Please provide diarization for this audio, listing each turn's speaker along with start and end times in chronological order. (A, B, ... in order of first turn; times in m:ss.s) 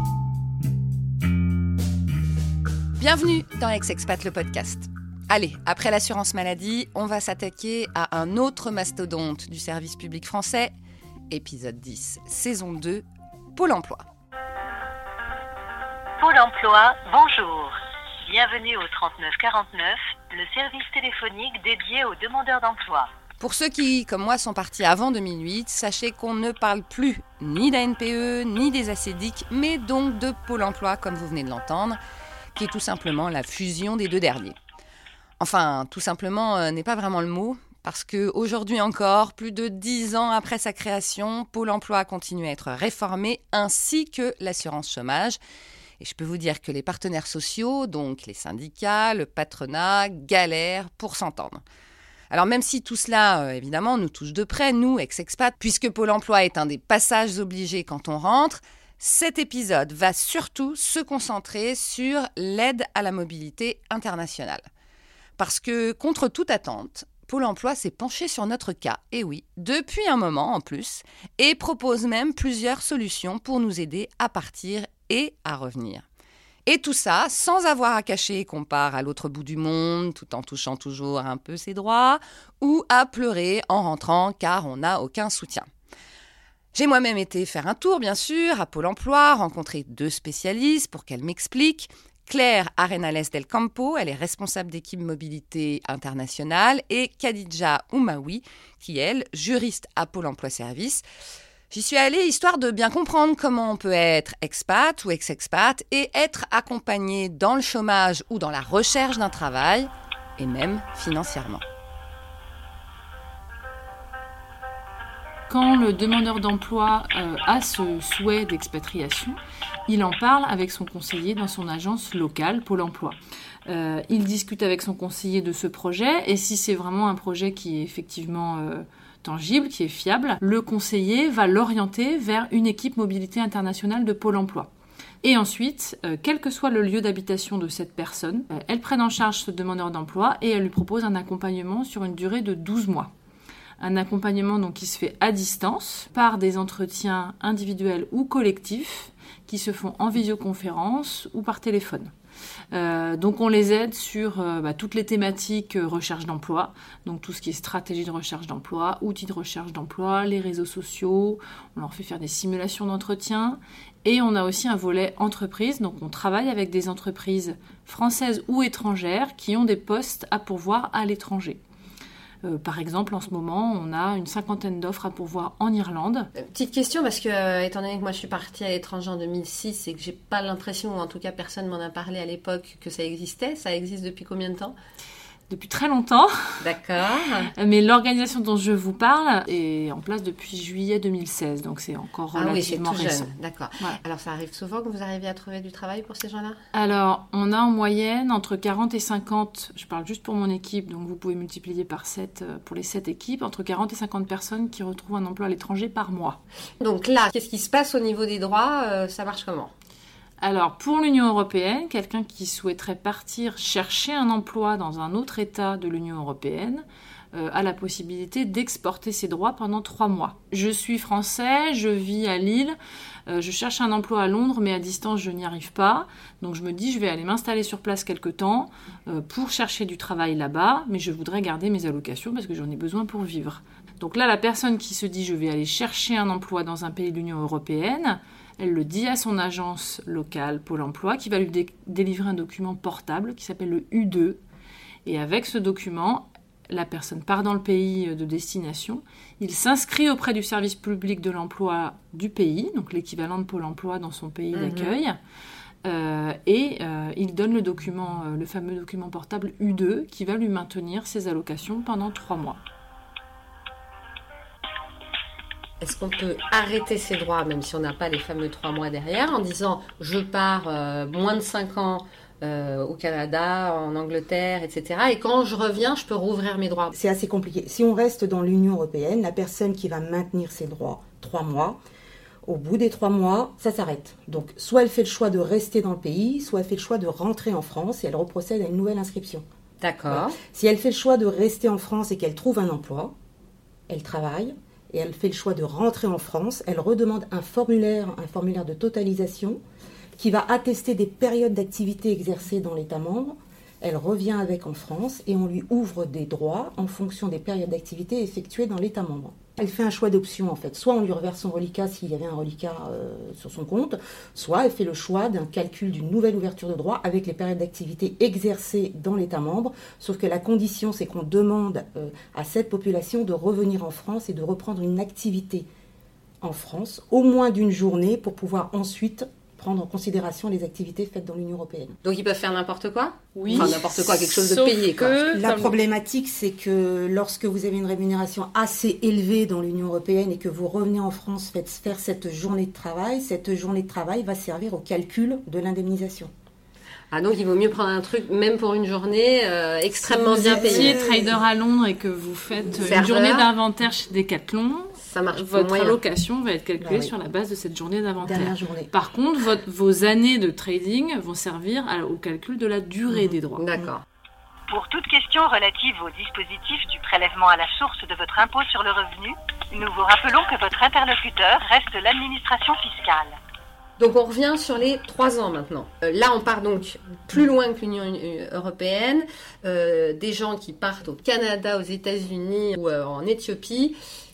0:03.0-0:10.7 A
0:11.3-0:14.0 A
0:16.2-0:23.1 B
0:23.4-0:32.0 A
0:32.6-0:34.6 A
0:35.4-0:45.4 A
0:46.0-0:51.6 A
0:52.3-1:04.6 A
1:05.4-1:16.0 A
1:16.7-1:25.7 A
1:26.7-1:41.0 A
1:41.7-1:51.6 A
1:55.5-2:14.7 C
2:15.2-2:23.1 C
2:23.8-2:32.1 C
2:32.7-2:51.6 C
2:52.4-2:56.3 C
2:56.4-3:04.8 D
3:05.5-3:06.7 C
3:06.6-3:07.5 D
3:07.6-3:14.0 C
3:12.3-3:16.6 D
3:16.7-3:26.4 C
3:26.8-3:29.7 D
3:30.4-3:42.8 C
3:43.3-4:04.4 C
4:05.1-4:15.2 C
4:14.5-4:14.9 D
4:15.8-4:22.6 C
4:25.8-4:36.9 D
4:36.9-4:41.8 E
4:42.4-4:49.4 E
4:49.8-4:50.4 D
4:50.1-4:53.2 E
4:53.9-4:59.6 E
5:00.2-5:25.7 E
5:26.4-5:32.0 E
5:32.0-5:35.4 D
5:33.4-5:35.8 C
5:33.5-5:33.8 E
5:35.3-5:46.3 E
5:47.1-5:51.0 D
5:50.0-6:03.6 C
5:50.3-5:51.4 E
5:52.8-5:53.5 D
5:55.0-5:56.0 D
5:56.8-5:57.1 E
5:58.2-5:58.9 E
6:03.6-6:04.0 D
6:04.7-6:13.4 B
6:14.0-6:24.0 D